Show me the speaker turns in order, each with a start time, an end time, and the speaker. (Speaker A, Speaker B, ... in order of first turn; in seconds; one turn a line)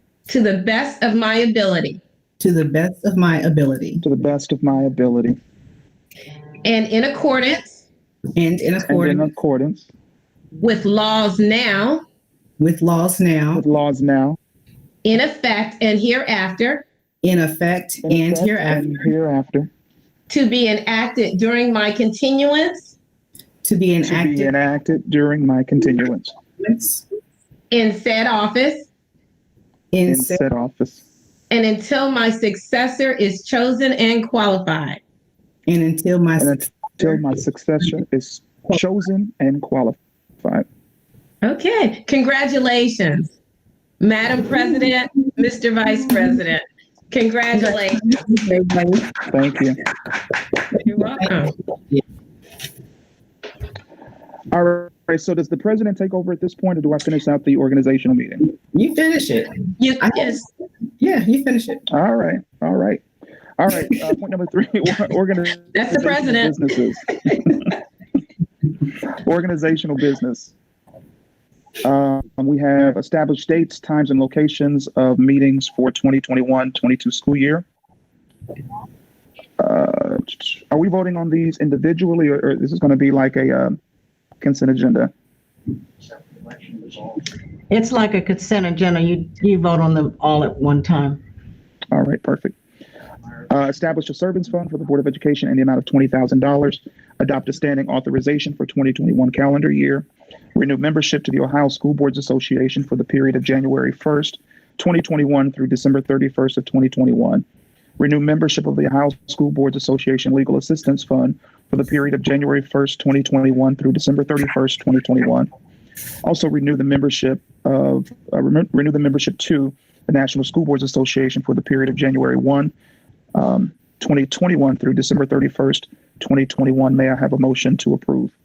Speaker A: 0.3-2.0
Speaker B: 2.4-4.0
Speaker C: 4.0-5.4
Speaker A: 6.6-7.8
Speaker B: 8.4-9.3
Speaker C: 8.8-9.9
Speaker A: 10.6-12.0
Speaker B: 12.6-13.7
Speaker C: 13.6-14.4
Speaker A: 15.1-16.9
Speaker B: 17.2-19.1
Speaker C: 18.1-19.7
Speaker A: 20.3-22.9
Speaker B: 23.6-24.5
Speaker C: 24.0-26.4
Speaker B: 26.6-27.1
Speaker A: 27.7-28.9
Speaker B: 29.9-30.4
Speaker C: 30.1-31.0
Speaker A: 31.5-35.0
Speaker B: 35.7-36.7
Speaker C: 36.4-40.7
Speaker A: 41.4-43.3
Speaker A: 44.0-48.9
Speaker C: 49.3-49.8
Speaker A: 50.8-51.5
Speaker C: 54.5-58.5
Speaker B: 58.7-60.5
Speaker A: 59.8-60.5
Speaker B: 61.0-61.8
Speaker C: 61.9-63.0
Speaker C: 63.6-67.1
Speaker A: 65.7-66.8
Speaker C: 69.2-70.5
Speaker C: 71.8-77.7
Speaker C: 79.6-83.8
Speaker C: 84.4-85.1
Speaker D: 87.7-91.2
Speaker C: 91.9-92.6
Speaker C: 93.5-107.4
Speaker C: 108.0-115.5
Speaker C: 116.2-122.7
Speaker C: 123.3-128.3